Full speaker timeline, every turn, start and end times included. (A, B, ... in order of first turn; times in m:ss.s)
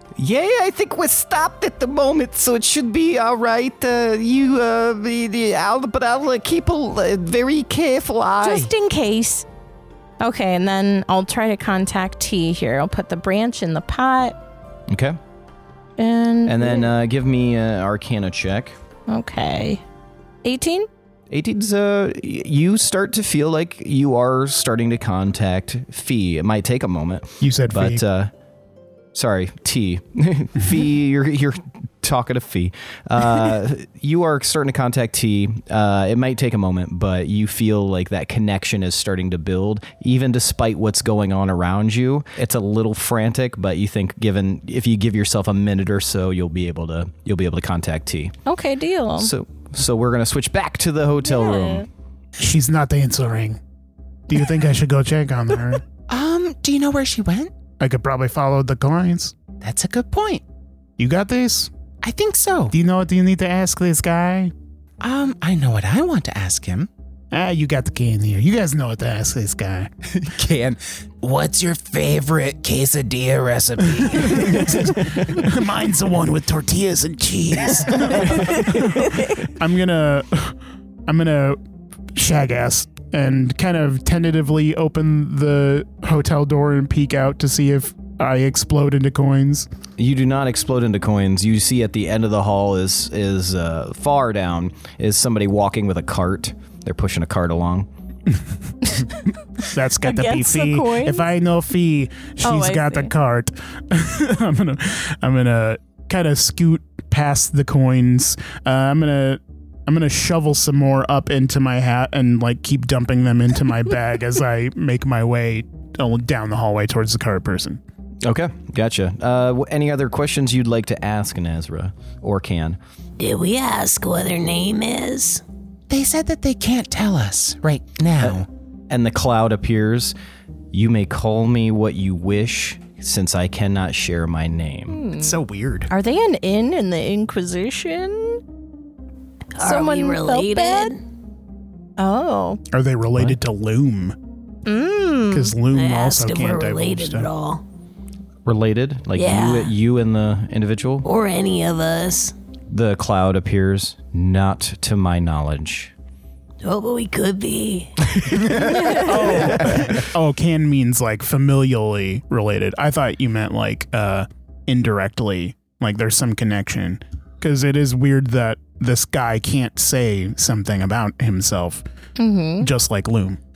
0:00.2-0:08.7 A
0:08.4-0:09.5 B
0:10.2-0:14.4 B
0:14.9-0:15.2 A
0:16.0-0:16.9 B
0:16.5-0:18.8 A
0:19.1-0:19.8 B
0:20.4-0:20.9 B
0:21.3-0:28.3 A
0:27.4-0:28.0 C
0:29.1-0:48.4 A
0:48.5-0:49.3 B
0:49.2-0:51.9 A
0:51.2-0:51.9 B
0:52.4-0:53.6 C
0:54.3-0:55.8 C
0:56.1-0:57.5 D
0:57.8-0:59.3 C
0:59.6-1:00.4 D
1:01.0-1:01.7 C
1:02.0-1:02.7 D
1:02.7-1:04.5 C
1:05.0-1:06.9 D
1:07.3-1:09.9 C
1:10.1-1:15.1 D
1:14.1-1:21.6 C
1:22.2-1:29.7 C
1:30.0-1:37.9 A
1:39.6-1:57.8 C
1:40.0-1:41.3 B
1:42.4-1:43.1 B
1:58.2-2:02.8 A
2:03.2-2:05.4 E
2:05.9-2:08.5 D
2:08.2-2:10.2 A
2:10.7-2:15.0 A
2:14.9-2:15.4 B
2:15.2-2:15.9 C
2:15.9-2:18.4 B
2:19.6-2:21.0 E
2:19.6-2:21.0 B
2:22.0-2:22.6 B
2:22.7-2:24.2 C
2:24.7-2:25.6 B
2:25.3-2:27.3 C
2:25.7-2:27.6 E
2:28.5-2:31.0 A
2:29.2-2:29.7 E
2:31.0-2:32.3 E
2:32.7-2:35.9 A
2:36.6-2:38.2 E
2:38.1-2:38.6 A
2:38.6-2:39.1 B
2:38.8-2:39.1 E
2:39.0-2:51.8 C
2:39.4-2:39.8 A
2:52.2-2:52.7 B
2:52.6-2:53.4 C